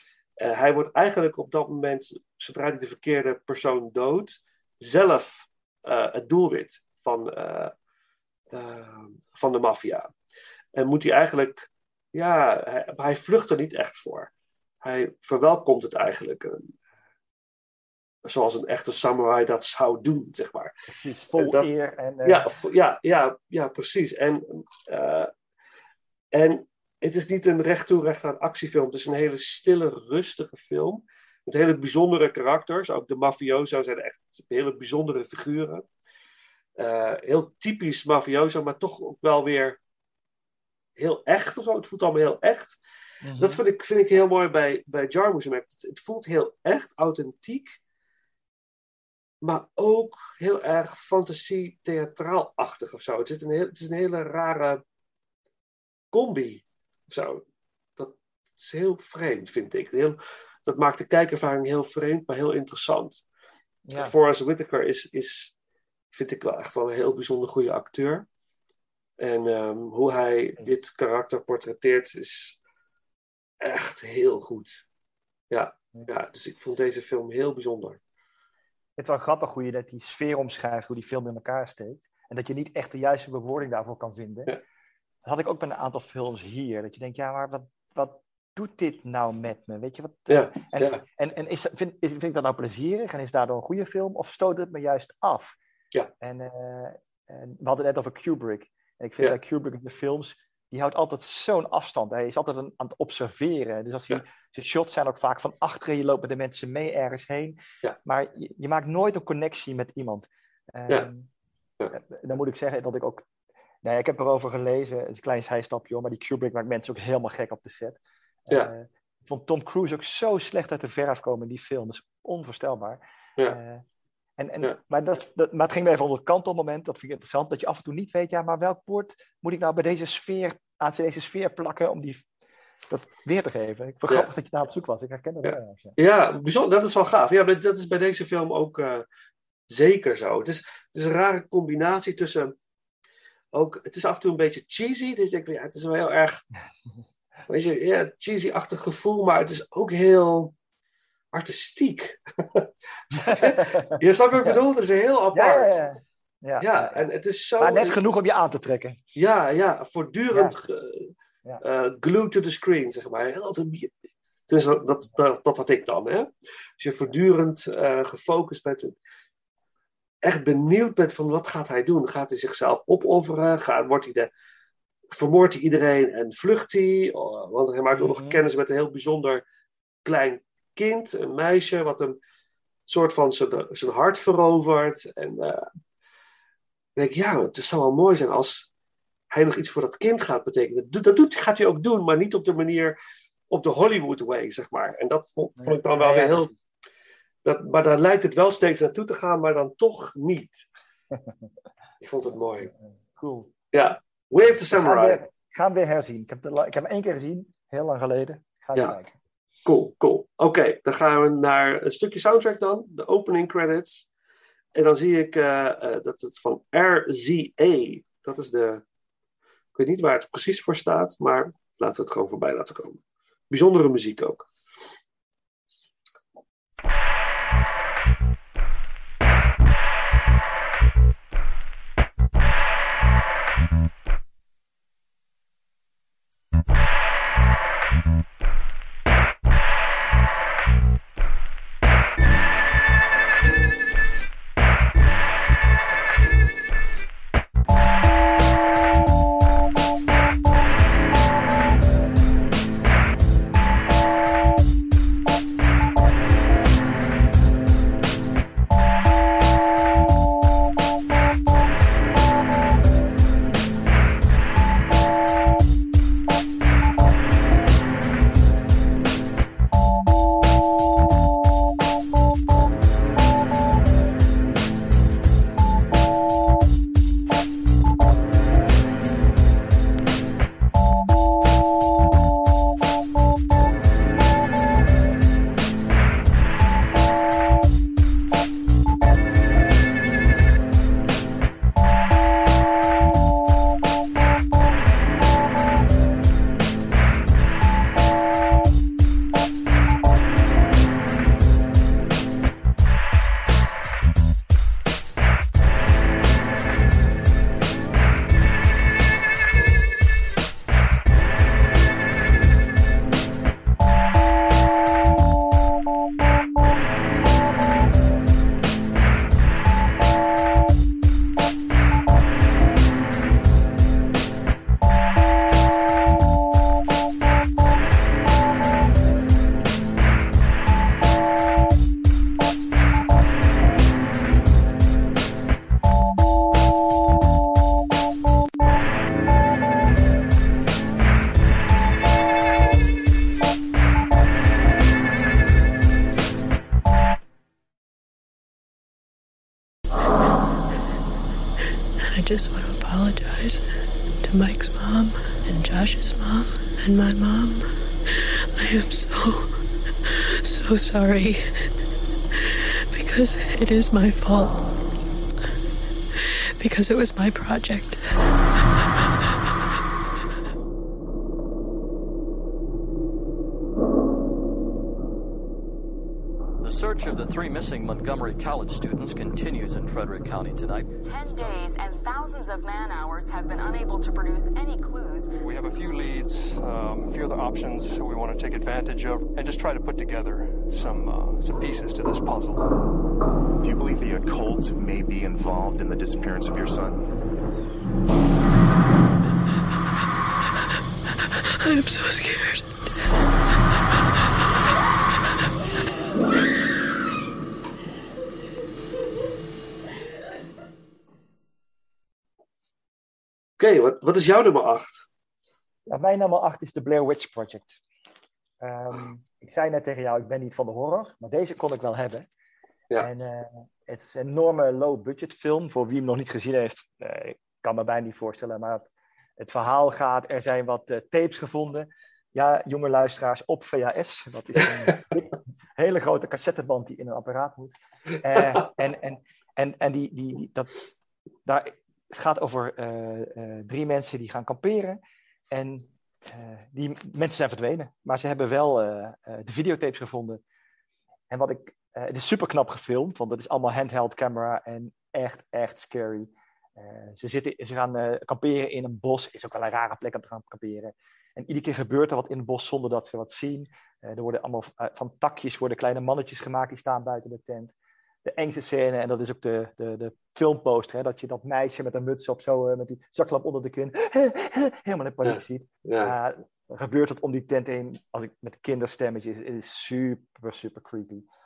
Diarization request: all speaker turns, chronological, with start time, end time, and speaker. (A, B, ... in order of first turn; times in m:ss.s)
0:00.4-0:07.7 A
0:08.5-0:10.1 A
0:10.8-0:14.3 A
0:14.8-0:16.7 A
0:18.2-0:20.7 A
0:20.9-0:22.5 B
0:21.4-0:21.7 A
0:22.2-0:25.3 A
0:26.3-0:35.8 A
0:36.8-0:39.8 A
0:41.0-0:42.8 A
0:43.2-0:43.6 B
0:43.4-0:47.8 A
0:49.4-0:54.8 A
0:56.1-0:57.4 A
0:58.0-1:03.2 A
1:03.9-1:04.1 B
1:03.9-1:05.5 A
1:06.1-1:08.3 A
1:09.2-1:12.6 A
1:13.6-1:14.8 A
1:15.5-1:18.0 A
1:19.0-1:24.5 B
1:25.2-1:35.6 B
1:30.3-1:31.0 A
1:36.2-1:51.3 B
1:51.9-1:53.3 B
1:53.8-2:03.8 B
2:04.4-2:12.2 B
2:12.9-2:16.0 B
2:15.4-2:19.1 A
2:19.7-2:22.5 A
2:23.5-2:26.4 A
2:27.5-2:30.5 A
2:31.3-2:35.8 A
2:33.1-2:34.6 B
2:35.3-2:37.0 B
2:36.6-2:38.0 A
2:37.6-2:39.0 B
2:39.2-2:43.9 A
2:44.5-2:49.0 A
2:50.2-2:54.3 A
2:55.1-2:59.4 A
2:58.0-2:58.4 B
3:00.0-3:02.2 A
3:02.9-3:05.7 A
3:07.0-3:08.7 A
3:09.3-3:13.0 A
3:13.5-3:16.5 A
3:15.6-3:16.5 B
3:17.4-3:20.6 A
3:22.0-3:22.7 A
3:22.7-3:23.5 B
3:23.7-3:25.2 A
3:24.6-3:29.2 B
3:29.7-3:34.1 A
3:34.8-3:38.8 A
3:39.8-3:44.5 A
5:52.0-5:53.6 C
5:54.2-6:01.7 C
6:02.4-6:04.7 C
6:06.2-6:08.1 C
6:16.6-6:20.9 D
6:21.0-6:25.3 E
6:25.4-6:32.8 F
6:33.6-6:37.1 G
6:41.6-6:42.7 C
6:53.6-6:55.1 A
6:55.9-6:57.8 B
6:58.6-7:02.3 B
7:03.0-7:20.8 B
7:21.5-7:25.0 B
7:25.5-7:30.4 B
7:31.3-8:01.3 B
7:55.2-7:56.1 A